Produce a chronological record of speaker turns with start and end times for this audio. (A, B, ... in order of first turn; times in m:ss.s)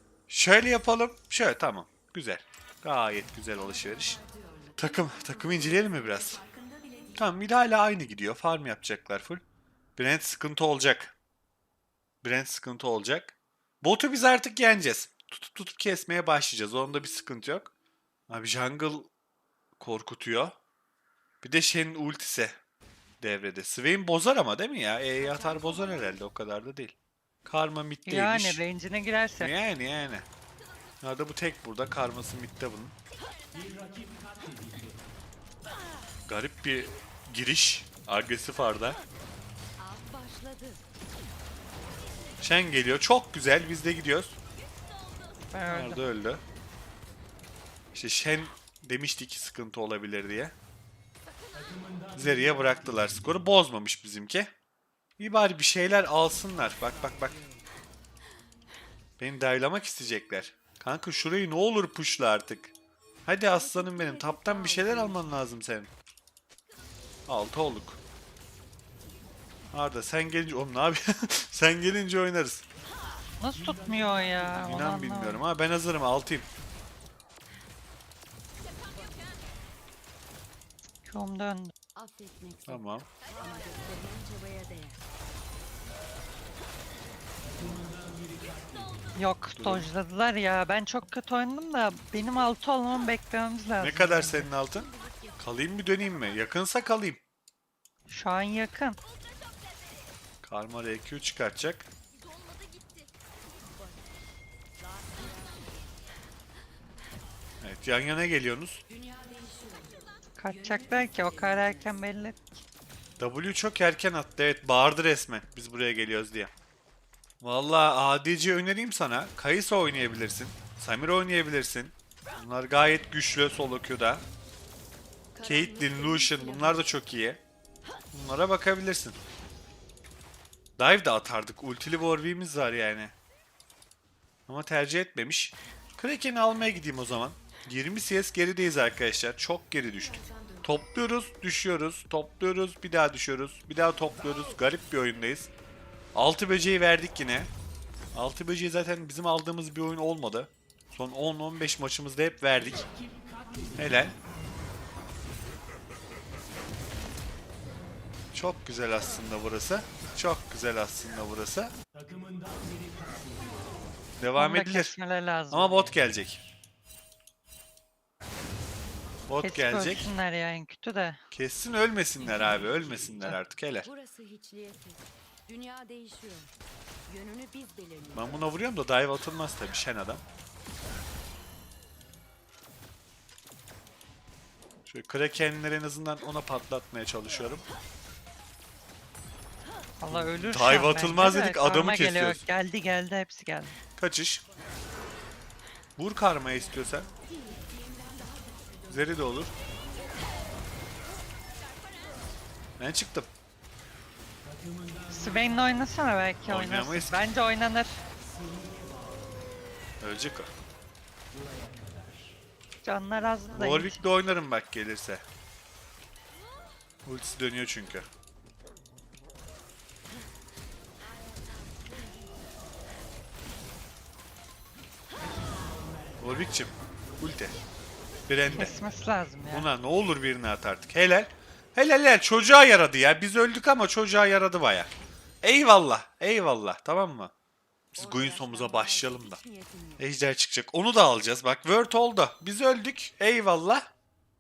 0:00.3-0:04.2 A
0:03.5-0:07.3 B
0:04.8-0:06.4 A
0:07.2-0:09.4 A
0:10.0-0:11.2 A
0:12.2-0:17.7 A
0:18.3-0:19.1 A
0:19.8-0:20.6 A
0:21.4-0:22.6 A
0:23.2-0:27.0 A
0:25.2-0:26.2 B
0:27.5-0:28.6 A
0:28.1-0:29.5 C
0:29.4-0:30.3 A
0:31.0-0:33.0 A
0:36.3-0:39.0 A
0:39.8-0:40.8 B
0:42.4-0:44.4 A
0:45.5-0:46.1 C
0:45.7-0:46.4 A
0:47.9-0:50.5 A
0:52.2-0:54.5 A
0:55.2-0:57.4 A
0:56.7-0:57.8 B
0:59.2-1:02.7 A
1:03.3-1:05.9 A
1:03.5-1:05.4 B
1:07.3-1:08.0 A
1:09.7-1:12.6 A
1:13.4-1:15.4 C
1:14.6-1:16.5 A
1:21.1-1:21.7 C
1:22.0-1:25.1 B
1:22.7-1:23.1 A
1:29.2-1:34.5 C
1:29.5-1:29.9 A
1:33.8-1:37.2 A
1:34.6-1:35.4 B
1:38.1-1:39.0 C
1:40.4-1:41.9 A
1:42.5-1:43.0 B
1:44.8-1:46.0 B
1:47.6-1:48.8 A
1:48.9-1:52.0 B
1:50.4-1:52.6 C
1:53.2-1:56.5 A
1:57.4-2:04.2 A
2:05.3-2:07.0 B
2:05.4-2:07.4 A
2:08.1-2:09.2 A
2:10.8-2:13.2 A
2:14.5-2:25.5 A
2:19.9-2:20.8 B
2:26.2-2:27.5 A
2:28.1-2:32.9 A
2:33.8-2:34.2 A
2:38.3-2:41.8 A
2:44.2-2:44.9 A
2:44.4-2:45.8 C
2:45.5-2:46.4 A
2:49.3-2:50.1 A
2:49.4-2:51.2 C
2:51.3-2:53.9 A
2:52.2-2:53.3 B
2:53.8-2:56.5 B
2:57.1-2:58.5 B
2:58.2-3:00.2 A
3:04.9-3:07.6 A
3:10.0-3:13.8 C
3:10.1-3:12.4 A
3:14.0-3:14.4 A
3:16.0-3:17.1 A
3:16.4-3:20.2 B
3:18.9-3:19.5 A
3:22.8-3:23.3 A
3:25.1-3:28.0 C
3:26.5-3:27.2 A
3:30.0-3:30.5 A
3:32.8-3:34.0 C
3:33.6-3:35.2 A
3:37.1-3:38.1 A
3:46.2-3:47.6 A
3:48.3-3:48.8 A
3:48.5-3:49.7 C
3:49.5-3:54.9 A
3:55.4-3:57.3 A
3:57.9-3:59.4 A
3:58.0-4:00.1 B
4:00.0-4:03.9 A